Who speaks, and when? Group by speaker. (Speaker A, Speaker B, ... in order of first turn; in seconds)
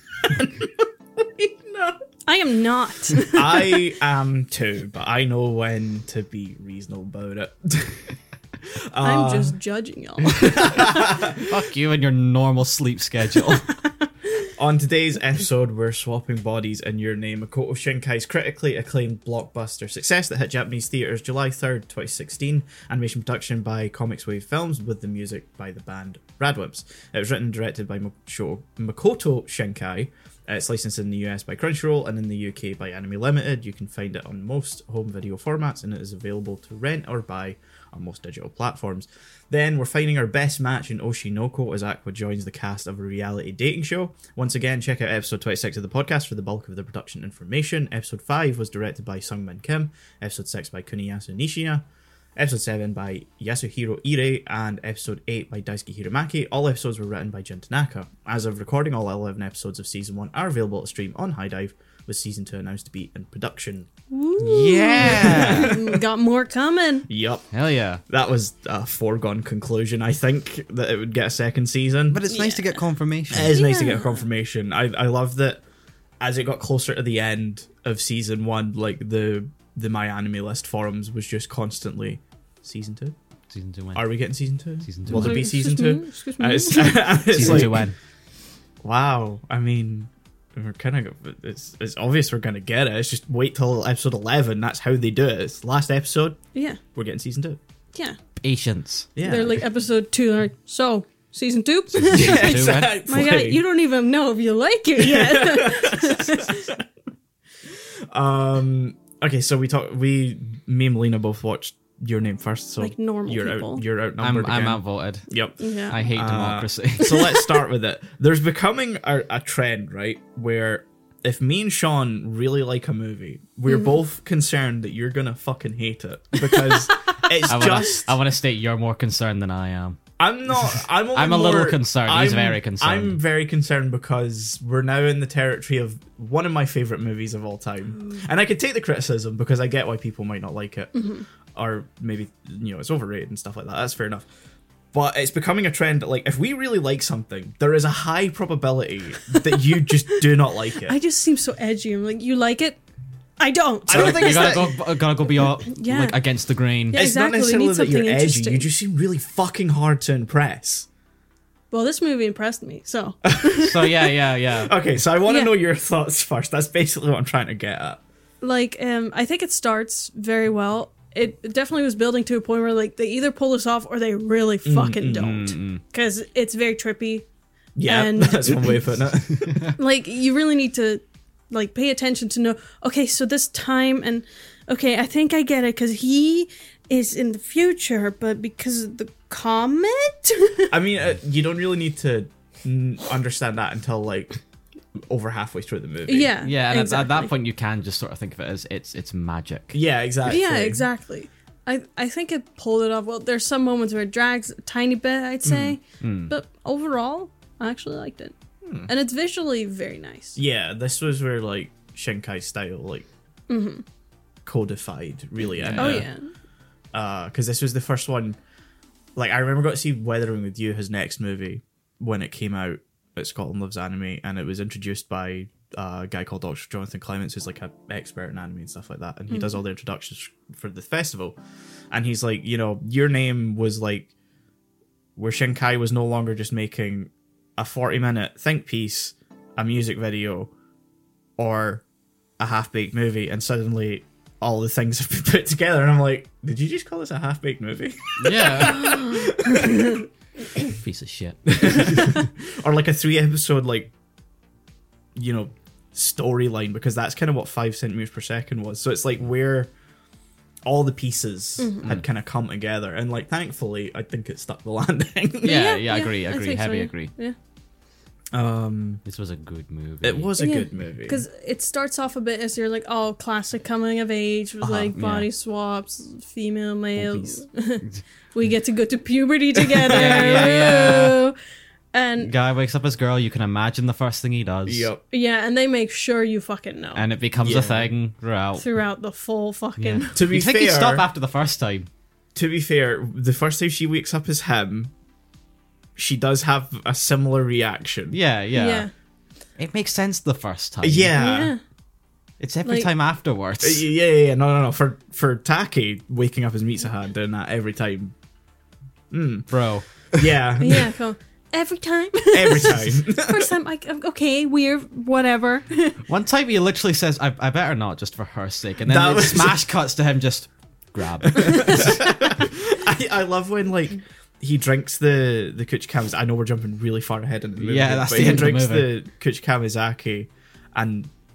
Speaker A: 0.2-0.8, 1.4-1.9, 3.2-8.1, 8.9-9.5, 10.2-11.5, 14.5-51.8, 52.4-63.9, 64.5-65.9, 67.1-67.5, 68.0-72.2, 73.3-75.6, 76.2-83.1, 83.9-87.8, 88.8-96.4, 96.9-97.6, 99.2-99.6, 102.1-103.6, 105.0-106.8, 108.1-128.1, 130.2-141.0, 141.5-144.3, 144.9-151.0, 153.9-154.8, 156.9-160.9, 163.2-163.6, 164.6-168.0, 174.6-175.6, 177.8-179.7, 190.7-194.4, 195.1-196.3, 199.7-200.8, 205.4-205.8, 210.3-213.1, 214.4-216.1, 216.9-218.4, 219.2-231.4, 231.9-234.1, 235.2-240.5, 241.4-241.8, 242.4-250.0, 251.5-253.9, 255.2-259.7, 260.6-265.6, 268.3-269.0, 270.0-271.2, 274.6-274.9, 276.9-277.4, 279.7-280.5, 284.6-285.0, 287.4-287.9, 290.1-291.0, 292.3-294.9, 295.9-298.1, 300.8-301.5, 303.6-308.1, 309.1-309.5, 310.1-310.9, 312.3-313.5, 318.9-319.6, 321.3-331.1
Speaker B: 2.2-3.9, 9.0-10.9, 13.5-13.9, 64.1-67.1, 72.3-72.8, 73.4-74.2, 85.1-87.8, 96.5-96.8, 99.2-106.7, 112.8-113.8, 115.6-116.0, 123.7-123.9, 140.9-141.2, 150.2-152.8, 153.4-154.7, 155.7-156.2, 156.9-158.7, 161.7-164.1, 168.4-177.2, 177.8-178.8, 179.8-190.7, 196.1-197.3, 200.2-208.3, 208.9-210.4, 213.5-213.8, 215.8-216.3, 229.3-229.6, 248.6-249.9, 261.6-261.9, 265.4-267.4, 270.4-281.3, 281.9-282.3, 285.1-287.1, 288.6-290.2, 298.5-298.9, 301.2-301.6, 302.6-302.9, 310.6-316.0, 321.4-322.0, 328.2-328.5
Speaker C: 11.0-13.7, 64.4-65.8, 67.5-68.0, 72.1-73.5, 83.5-84.0, 84.8-85.4, 87.3-87.9, 98.4-99.1, 102.0-102.9, 114.2-115.3, 115.8-117.3, 127.4-130.0, 130.5-133.2, 153.9-157.0, 163.6-164.7, 175.4-175.8, 196.4-199.8, 206.0-206.3, 215.6-216.1, 248.2-248.9, 250.6-252.2, 265.4-267.1, 269.0-270.3, 274.9-275.3, 279.9-281.2, 282.2-284.9, 286.9-288.6, 289.8-291.9, 298.1-298.9, 299.6-301.1, 302.4-303.8, 309.5-309.9, 316.1-322.4, 327.6-328.9